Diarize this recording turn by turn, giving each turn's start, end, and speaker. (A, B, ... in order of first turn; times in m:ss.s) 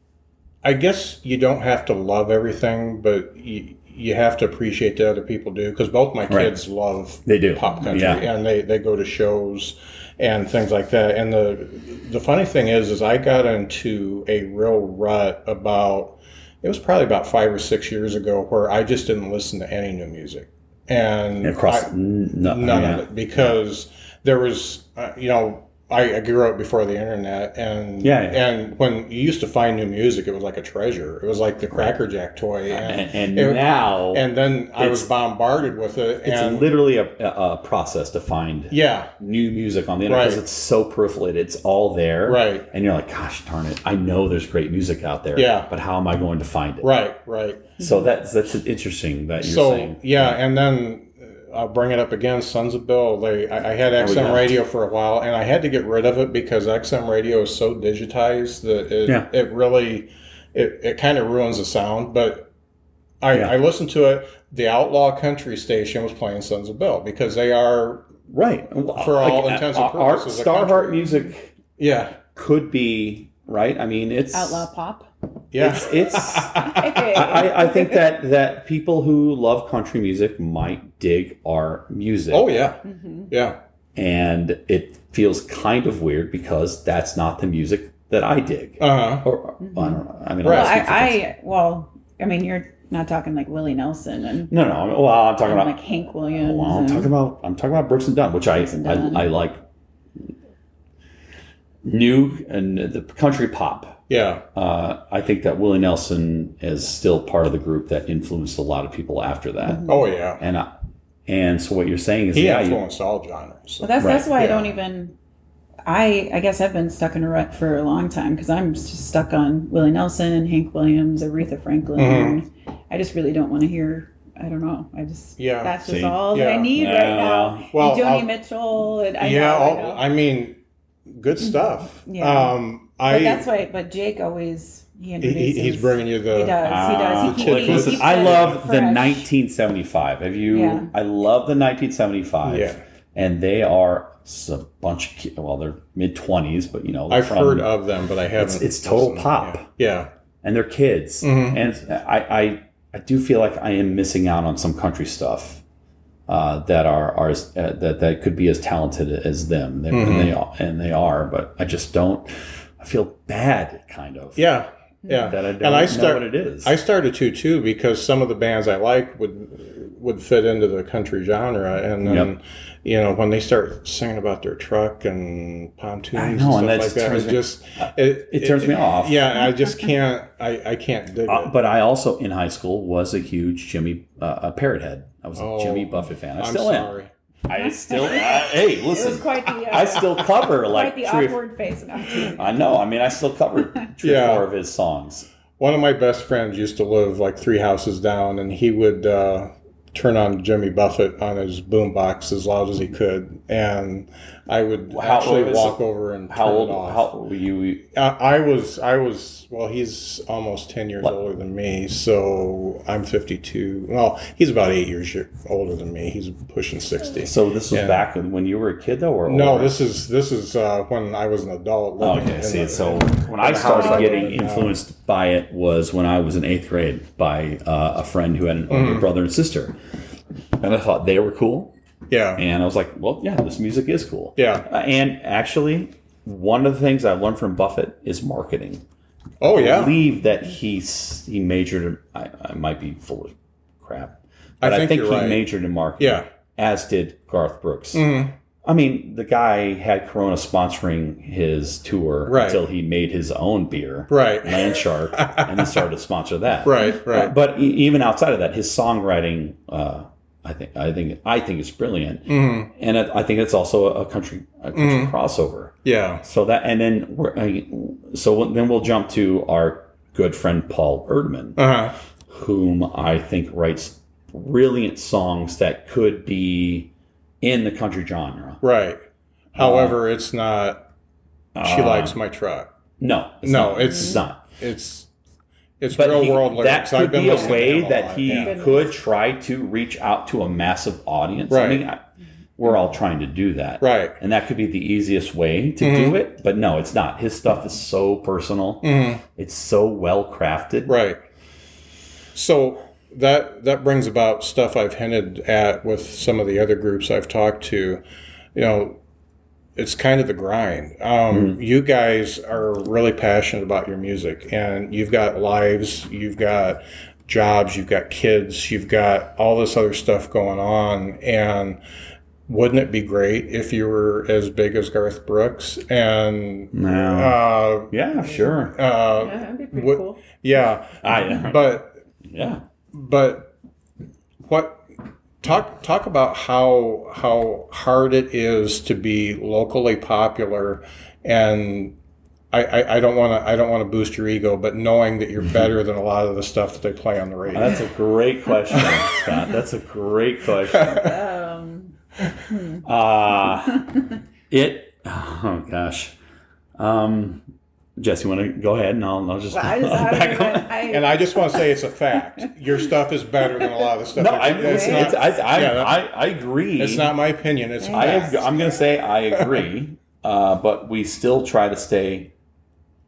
0:00.6-0:36.7 A
0:06.3-0:06.6 B
0:07.3-0:08.3 B
0:21.4-0:23.1 B
0:28.0-0:28.4 B
0:32.7-0:35.1 B
0:36.2-0:47.0 B
0:38.7-0:39.1 A
0:40.1-0:40.4 A
0:42.3-0:42.7 A
0:45.4-0:45.7 A
0:46.8-0:47.8 A
0:47.8-0:50.4 B
0:49.4-1:02.5 A
0:54.0-0:54.6 B
1:03.2-1:08.1 A
1:03.3-1:03.6 B
1:08.3-1:11.5 B
1:09.0-1:11.1 A
1:11.8-1:12.2 A
1:12.4-1:14.7 B
1:14.3-1:15.1 C
1:15.5-1:16.7 A
1:15.6-1:22.6 B
1:16.6-1:18.1 C
1:22.3-1:23.6 A
1:22.8-1:23.3 C
1:24.0-1:31.2 B
1:28.8-1:29.3 A
1:29.6-1:34.5 C
1:30.4-1:30.8 A
1:34.5-1:35.8 B
1:35.4-1:37.1 C
1:36.4-1:39.6 B
1:38.8-1:39.3 C
1:41.8-1:50.7 B
1:44.1-1:44.4 A
1:49.7-1:50.0 C
1:49.9-1:50.4 A
1:51.3-1:52.8 B
1:52.3-1:54.6 A
1:53.8-1:55.2 C
1:54.0-1:54.4 B
1:55.8-2:10.0 C
2:02.0-2:02.4 A
2:05.4-2:05.8 A
2:05.8-2:07.7 B
2:06.3-2:06.7 A
2:07.7-2:08.3 A
2:09.2-2:13.5 A
2:11.4-2:19.3 C
2:15.2-2:18.6 A
2:16.6-2:27.7 B
2:20.5-2:20.9 C
2:22.5-2:22.8 A
2:27.1-2:30.1 A
2:28.4-2:29.7 B
2:30.4-2:35.6 B
2:31.2-2:31.6 A
2:36.3-2:44.5 B
2:39.9-2:40.3 A
2:44.4-3:01.5 A
2:45.1-2:45.3 C
2:45.3-2:46.8 B
2:52.0-2:52.3 B
2:56.1-2:59.4 B
3:01.3-3:06.9 B
3:05.4-3:07.1 A
3:07.5-3:11.4 B
3:07.9-3:12.6 C
3:12.3-3:15.3 B
3:14.0-3:14.5 A
3:15.6-3:27.1 A
3:24.9-3:27.9 B
3:28.0-3:38.1 A
3:37.2-3:39.9 B
3:39.3-3:44.8 A
3:42.0-3:49.8 B
3:43.7-3:44.2 C
3:48.7-3:49.1 A
3:50.6-3:51.7 B
3:52.1-3:52.4 A
3:52.4-3:58.8 B
3:54.4-3:54.7 A
3:59.4-4:00.0 A
3:59.4-4:08.1 B
4:04.6-4:05.5 A
4:06.0-4:06.3 A
4:07.9-4:08.3 A
4:08.6-4:31.7 B
4:12.3-4:12.6 A
4:14.1-4:15.8 A
4:16.6-4:17.3 A
4:22.3-4:22.7 A
4:24.8-4:25.1 A
4:25.8-4:26.2 A
4:31.6-4:32.0 A
4:32.3-4:38.6 B
4:38.6-4:39.0 A
4:39.6-4:40.0 B
4:39.6-4:40.8 A
4:41.6-4:42.2 B
4:41.6-4:42.7 A
4:43.0-4:44.4 B
4:43.4-4:45.1 A
4:45.8-4:48.5 A
4:45.9-4:52.0 B
4:47.3-4:47.6 C
4:48.2-4:49.0 C
4:51.5-4:51.8 A
4:52.6-5:01.0 B
4:53.8-4:54.2 A
4:55.8-4:56.2 A
4:58.8-4:59.2 A
5:00.9-5:01.2 A
5:02.4-5:08.0 A
5:08.6-5:09.0 A
5:09.8-5:21.8 A
5:11.3-5:11.6 B
5:22.5-5:28.0 A
5:26.7-5:28.8 B
5:28.2-5:30.2 C
5:28.7-5:32.0 A
5:31.0-5:32.6 B
5:32.9-5:33.5 A
5:34.4-5:34.8 A
5:35.4-5:42.0 A
5:42.5-5:47.8 A
5:47.5-5:51.1 B
5:50.8-5:52.0 C
5:52.5-5:52.8 C
5:52.8-5:56.2 B
5:56.8-5:57.4 B
5:58.0-6:00.9 B
5:59.5-6:01.6 C
6:00.9-6:06.0 A
6:04.1-6:07.1 B
6:04.6-6:05.2 C
6:06.8-6:08.5 A
6:07.8-6:08.4 C
6:07.8-6:12.3 B